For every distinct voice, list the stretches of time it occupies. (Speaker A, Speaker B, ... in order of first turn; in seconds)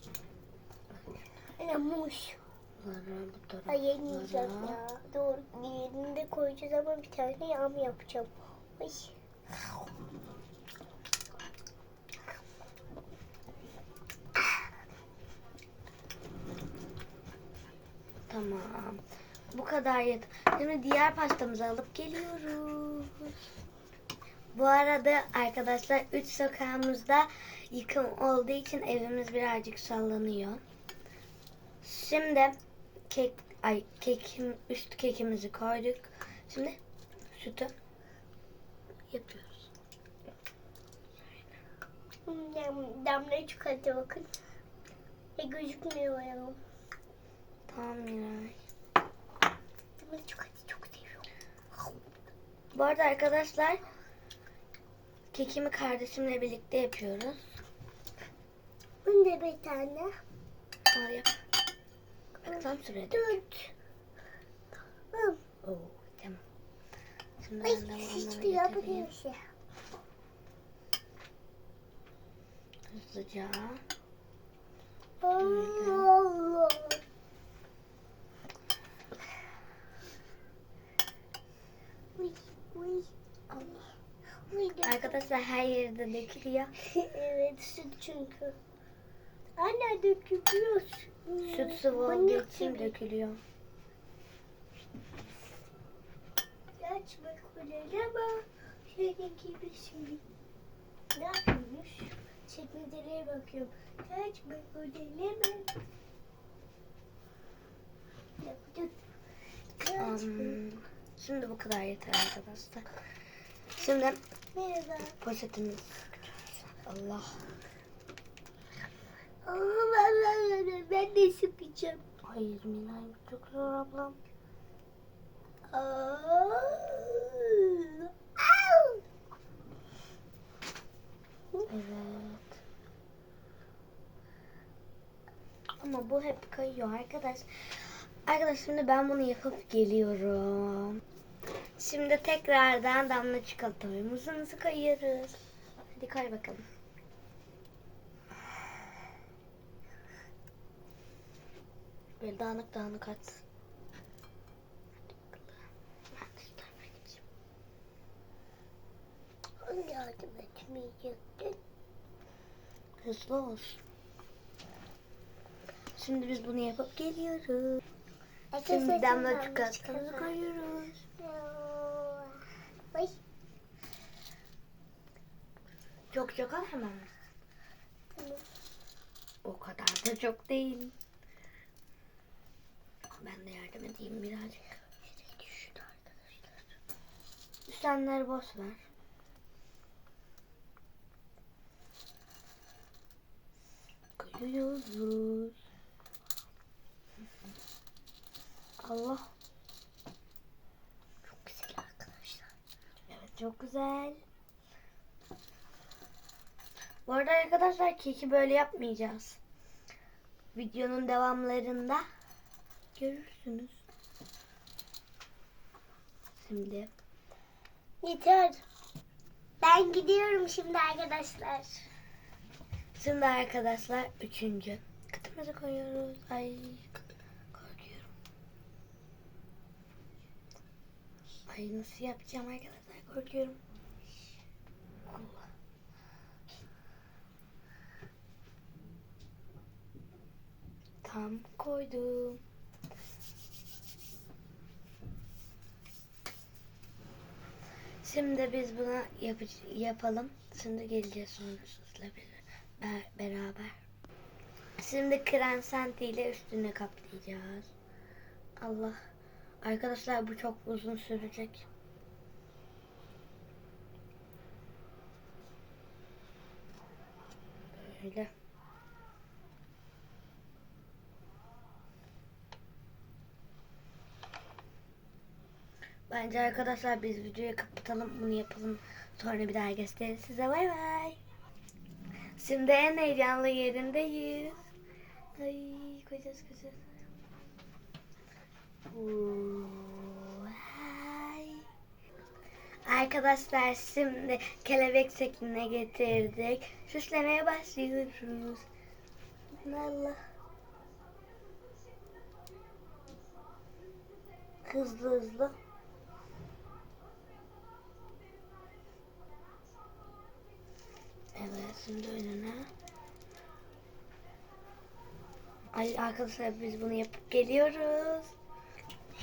Speaker A: 1.6-2.4, 3.7-9.2, 42.3-44.3, 45.4-46.6, 50.0-51.3, 59.0-60.1, 62.5-63.7, 65.1-65.4, 67.6-69.4, 75.2-77.0, 82.2-83.8, 84.5-85.3, 86.8-88.6, 89.6-93.0, 96.8-100.2, 101.1-105.8, 108.4-109.0, 109.8-110.6, 114.5-115.2, 119.5-122.0, 125.7-129.0, 159.6-161.6, 168.5-170.3, 171.2-172.4, 178.1-178.4, 185.2-186.2, 201.3-202.5, 218.0-218.6, 219.6-221.8
Speaker B: 2.8-4.8, 18.3-23.5, 24.6-30.6, 31.8-32.6, 33.1-36.8, 37.3-37.7, 39.1-39.7, 47.7-48.6, 52.7-53.8, 55.3-57.4, 60.9-61.3, 62.4-63.4, 65.6-66.4, 67.4-69.1, 72.9-73.8, 75.4-76.1, 84.8-86.7, 91.4-93.4, 110.0-112.9, 113.8-114.2, 115.2-117.4, 122.2-124.2, 131.6-132.6, 135.8-141.0, 141.8-145.4, 145.9-146.7, 152.2-153.4, 155.2-155.5, 156.1-157.2, 163.0-163.8, 166.0-167.8, 168.6-171.0, 176.1-177.1, 179.4-180.9, 183.2-184.6, 187.7-188.8, 194.2-195.6, 198.8-199.2, 203.1-204.2, 207.1-209.4, 210.5-212.1, 212.9-213.8, 216.4-216.9, 223.0-228.1, 231.5-233.6, 235.1-235.4, 241.0-242.4, 248.0-253.8, 254.8-257.7, 258.6-259.0, 259.6-261.7, 267.7-268.3, 276.1-281.2, 282.4-284.7, 285.4-286.8, 288.9-291.6, 292.9-298.7, 299.6-300.2, 304.6-305.5, 311.4-312.7, 315.7-318.3